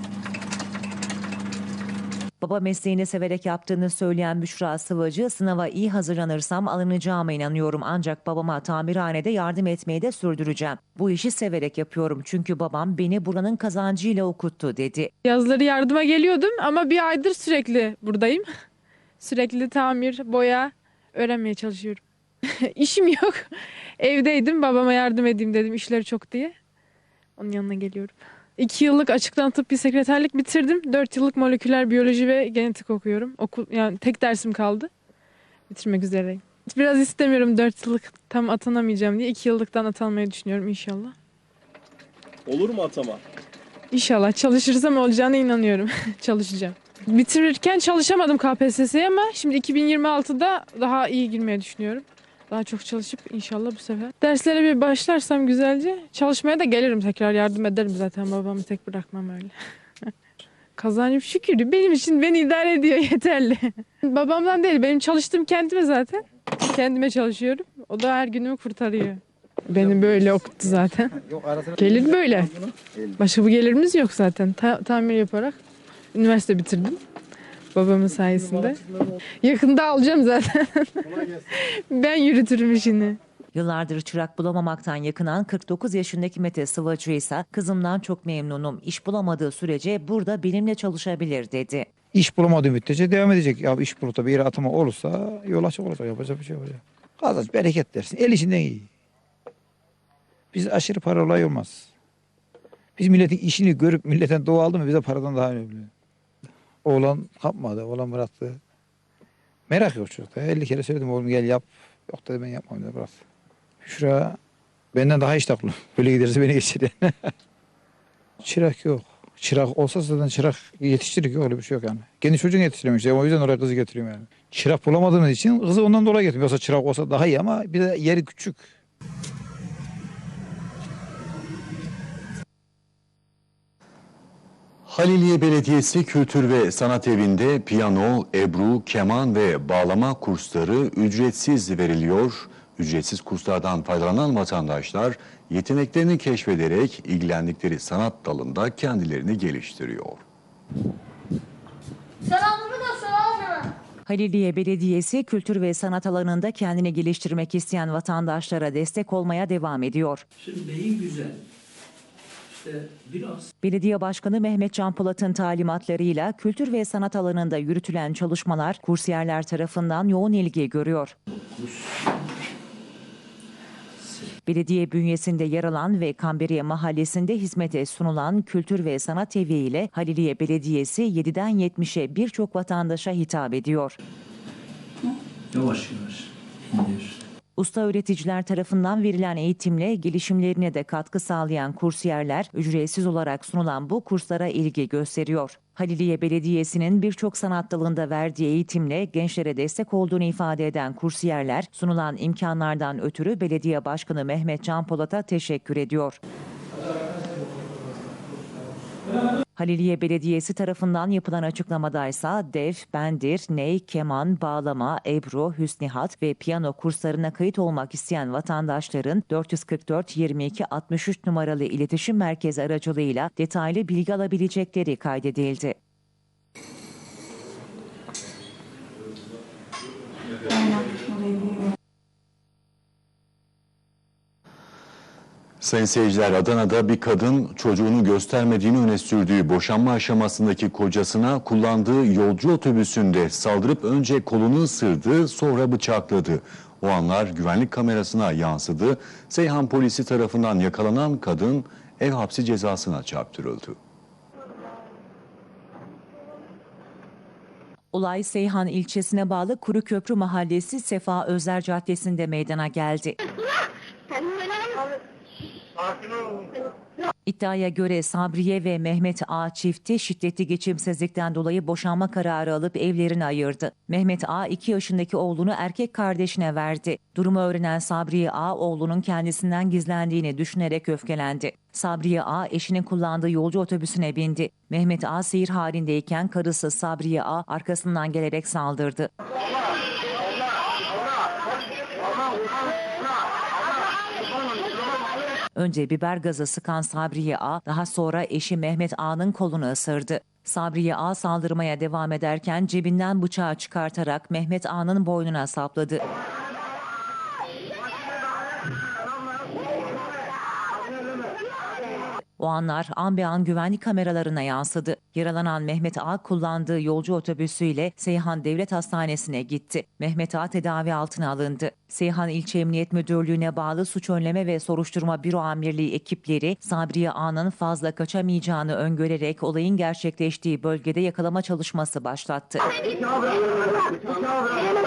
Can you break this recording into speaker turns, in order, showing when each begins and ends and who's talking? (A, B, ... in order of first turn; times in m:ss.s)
0:02.4-0:15.1 A
0:15.2-0:18.5 B
0:19.2-0:26.5 B
0:27.4-0:34.9 B
0:35.7-0:41.2 B
0:43.9-1:00.1 B
1:00.8-1:11.2 B
1:11.8-1:12.5 B
1:13.2-1:15.6 B
1:16.1-1:17.0 B
1:17.7-1:18.8 B
1:19.4-1:23.2 B
1:23.5-1:31.9 A
1:32.1-1:38.9 C
1:40.5-1:41.9 C
1:43.0-1:45.9 C
1:46.8-1:48.6 C
1:49.7-1:53.2 C
1:53.8-1:54.4 C
1:54.9-1:57.1 C
1:58.4-2:08.7 C
2:14.9-2:30.2 D
2:34.1-2:40.2 A
2:40.4-2:41.4 E
2:42.5-2:43.5 E
2:43.6-2:51.2 A
2:51.6-2:51.9 E
2:54.5-3:04.0 A
3:05.5-3:07.2 E
3:07.6-3:26.2 A
3:29.6-3:45.8 A
3:55.6-4:13.8 D
4:17.9-4:23.2 A
4:27.2-4:49.1 A
4:55.6-5:06.0 A
5:12.4-5:32.7 A